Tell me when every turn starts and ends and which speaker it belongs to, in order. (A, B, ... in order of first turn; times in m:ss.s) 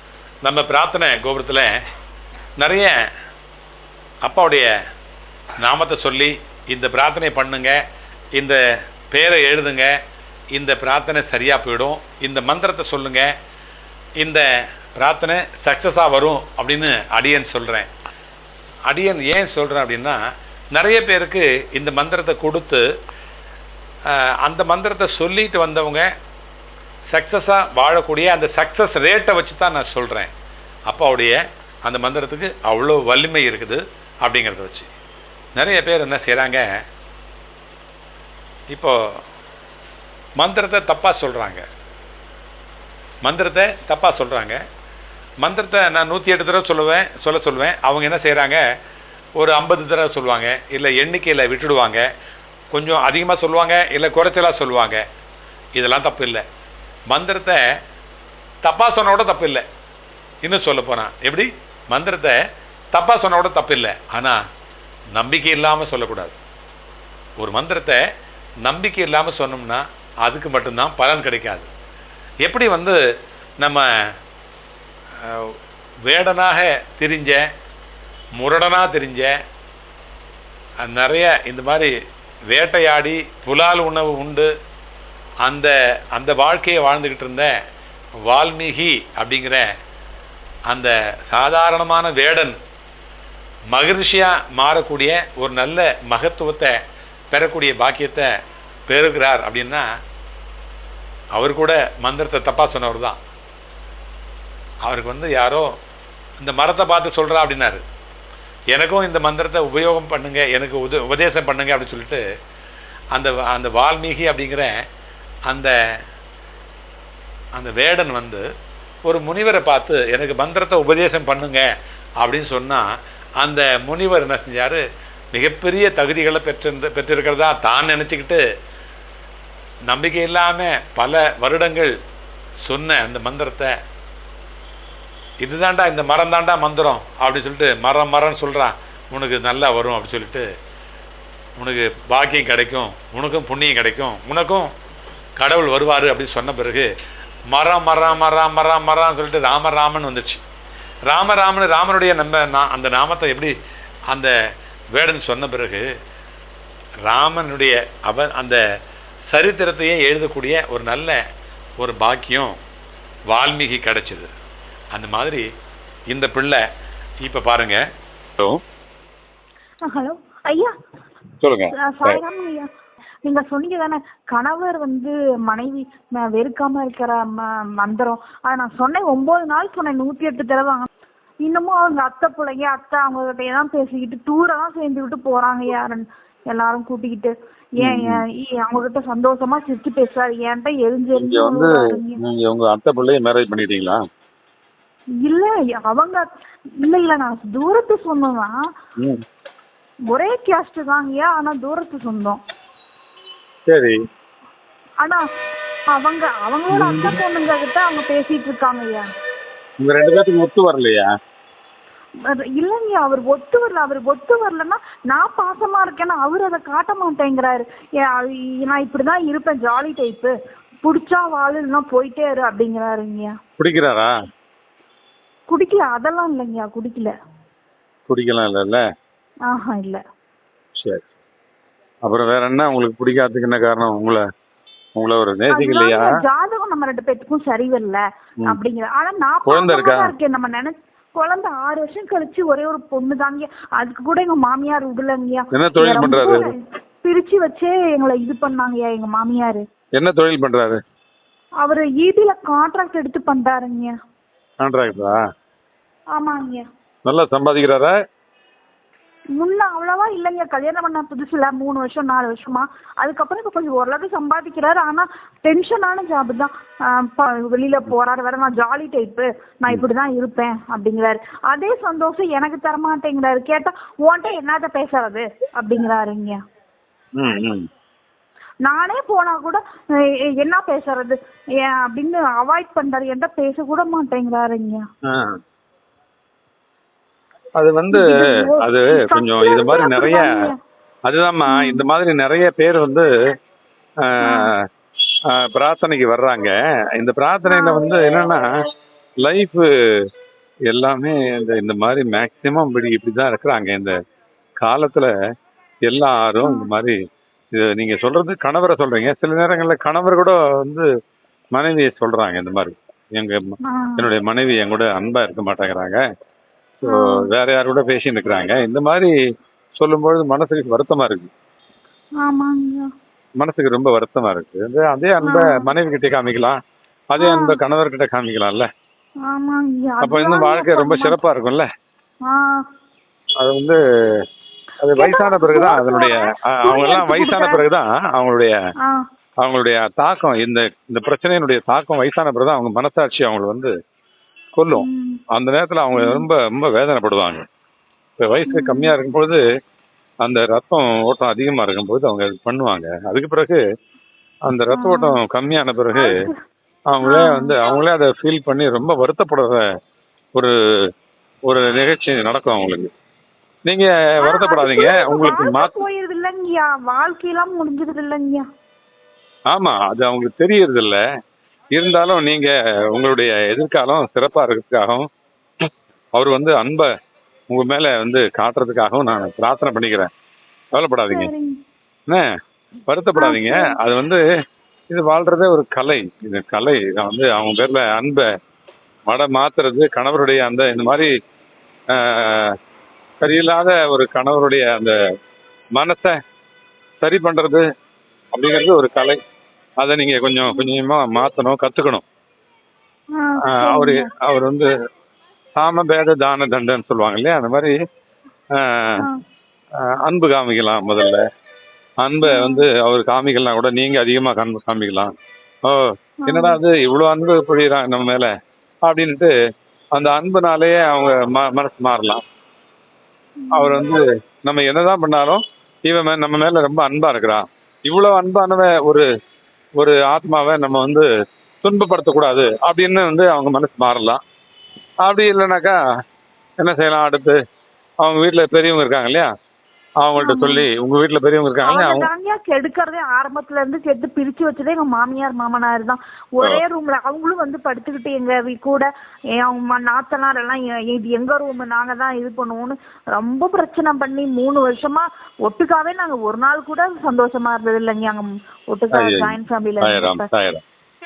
0:00.4-0:01.8 A
0:02.6-0:03.0 A
0:04.2-0:04.7 A
0:05.6-0:07.8 A
0:08.4-0:10.0 A
0:10.5-0:13.3 A
0:14.2-0:14.4 A
0:15.0-0:17.9 A
0:18.9-0:20.2 A
0:20.7-0:22.8 A
0:24.1-0:26.1 A
0:27.1-0:30.3 A
0:30.9-0:34.9 A
0:35.6-0:36.7 A
0:38.7-0:39.2 A
0:40.4-0:41.6 A
0:43.2-0:44.6 A
0:45.4-0:48.6 A
0:49.4-0:52.1 A
0:52.7-0:55.0 A
0:55.8-0:56.4 A
0:57.1-0:57.6 A
0:58.6-0:59.6 A
1:00.4-1:02.4 A
1:02.9-1:04.4 A
1:05.1-1:06.4 A
1:07.4-1:08.0 A
1:08.6-1:11.7 A
1:12.4-1:13.0 A
1:13.6-1:14.1 A
1:15.2-1:17.4 A
1:18.4-1:19.4 A
1:20.8-1:21.9 A
1:22.5-1:24.5 A
1:25.4-1:27.5 A
1:28.2-1:29.7 A
1:30.7-1:32.6 A
1:33.7-1:36.8 A
1:37.3-1:38.3 A
1:38.9-1:39.9 A
1:41.4-1:43.2 A
1:44.8-1:45.7 A
1:46.4-1:47.8 A
1:48.7-1:52.2 A
1:53.1-1:54.7 A
1:55.5-1:55.7 A
1:57.6-1:58.4 A
1:59.0-2:01.7 A
2:02.2-2:02.9 A
2:03.4-2:08.4 A
2:09.9-2:12.0 A
2:12.6-2:13.7 A
2:15.4-2:20.5 A
2:21.6-2:24.7 A
2:25.4-2:26.9 A
2:27.5-2:30.4 A
2:31.1-2:33.5 A
2:34.9-2:35.9 A
2:37.0-2:38.6 A
2:39.3-2:41.2 A
2:41.8-2:42.6 A
2:43.3-2:44.3 A
2:44.9-2:45.5 A
2:46.1-2:46.6 A
2:47.2-2:47.8 A
2:49.9-2:50.7 B
2:51.4-2:52.2 C
2:51.8-2:52.7 B
2:53.3-3:00.9 B
3:01.4-3:12.2 B
3:07.8-3:08.2 C
3:11.2-3:14.0 C
3:15.2-3:16.3 B
3:16.8-3:18.5 B
3:20.1-3:22.4 B
3:23.7-3:24.0 C
3:25.9-3:29.1 B
3:26.7-3:27.2 C
3:29.8-3:31.1 C
3:32.3-3:43.4 B
3:43.6-3:44.1 C
3:45.5-3:47.1 B
3:48.1-3:48.8 C
3:49.5-3:50.0 B
3:50.8-3:51.0 C
3:52.0-3:54.2 C
3:55.0-3:56.1 C
3:55.5-4:09.6 B
3:59.4-4:00.1 C
4:05.5-4:06.5 C
4:10.0-4:10.8 C
4:11.6-4:13.9 B
4:14.6-4:15.2 C
4:16.2-4:16.6 B
4:17.1-4:18.0 C
4:19.4-4:36.4 B
4:37.2-4:37.7 C
4:38.7-4:44.8 B
4:45.1-4:45.3 C
4:47.6-4:50.3 C
4:47.9-4:50.6 B
4:51.1-4:53.1 C
4:51.5-4:51.9 B
4:54.0-4:54.6 C
4:54.2-4:54.5 B
4:55.3-4:58.5 C
4:57.5-4:58.0 B
4:59.2-4:59.7 C
5:00.7-5:04.0 C
5:04.6-5:05.1 C
5:05.9-5:07.0 C
5:07.5-5:10.9 C
5:11.5-5:16.0 C
5:13.7-5:14.1 B
5:16.8-5:19.1 C
5:16.8-5:17.3 B
5:19.8-5:21.3 C
5:22.2-5:22.9 B
5:23.4-5:26.6 C
5:25.2-5:25.7 B
5:27.1-5:28.7 C
5:27.2-5:27.6 B
5:29.3-5:31.2 B
5:30.0-5:31.7 C
5:32.3-5:32.6 B
5:33.4-5:33.8 C
5:34.8-5:38.6 C
5:35.0-5:37.6 B
5:39.4-5:43.7 C
5:44.6-5:47.4 C
5:44.7-5:45.2 B
5:46.0-5:46.3 B
5:48.2-5:49.4 C
5:48.5-5:49.0 B
5:50.2-5:53.6 C
5:54.5-5:56.1 C
5:54.7-5:55.2 B
5:56.0-5:56.4 B
5:56.9-5:59.7 C
5:57.0-5:57.7 B
6:01.5-6:02.9 C
6:03.7-6:05.8 C
6:04.2-6:08.4 B
6:09.5-6:11.0 C
6:11.7-6:15.1 C
6:16.2-6:16.9 C
6:17.5-6:20.1 C
6:20.7-6:21.3 C
6:21.1-6:21.6 B
6:22.9-6:24.2 C
6:23.2-6:23.8 B
6:24.9-6:28.3 C
6:29.1-6:31.1 C
6:31.9-6:32.5 C
6:33.2-6:35.0 C
6:35.8-6:36.2 C
6:37.0-6:37.6 C
6:38.3-6:39.2 C
6:39.8-6:42.0 C
6:40.5-6:40.8 B
6:43.2-6:44.1 B
6:43.5-6:44.7 C
6:45.6-6:47.8 C
6:48.6-6:49.0 C
6:50.0-6:51.2 C
6:52.0-6:55.1 C
6:52.2-6:52.7 B
6:55.6-6:58.3 C
6:56.2-6:56.6 B
6:58.9-6:59.3 C
6:59.9-7:02.2 C
7:03.4-7:03.9 B
7:03.5-7:09.1 C
7:09.8-7:11.1 C
7:11.6-7:14.2 C
7:15.0-7:15.8 C
7:16.6-7:17.4 C
7:18.0-7:19.3 C
7:20.0-7:22.1 C
7:20.2-7:20.6 B
7:21.6-7:40.3 B
7:38.9-7:40.6 C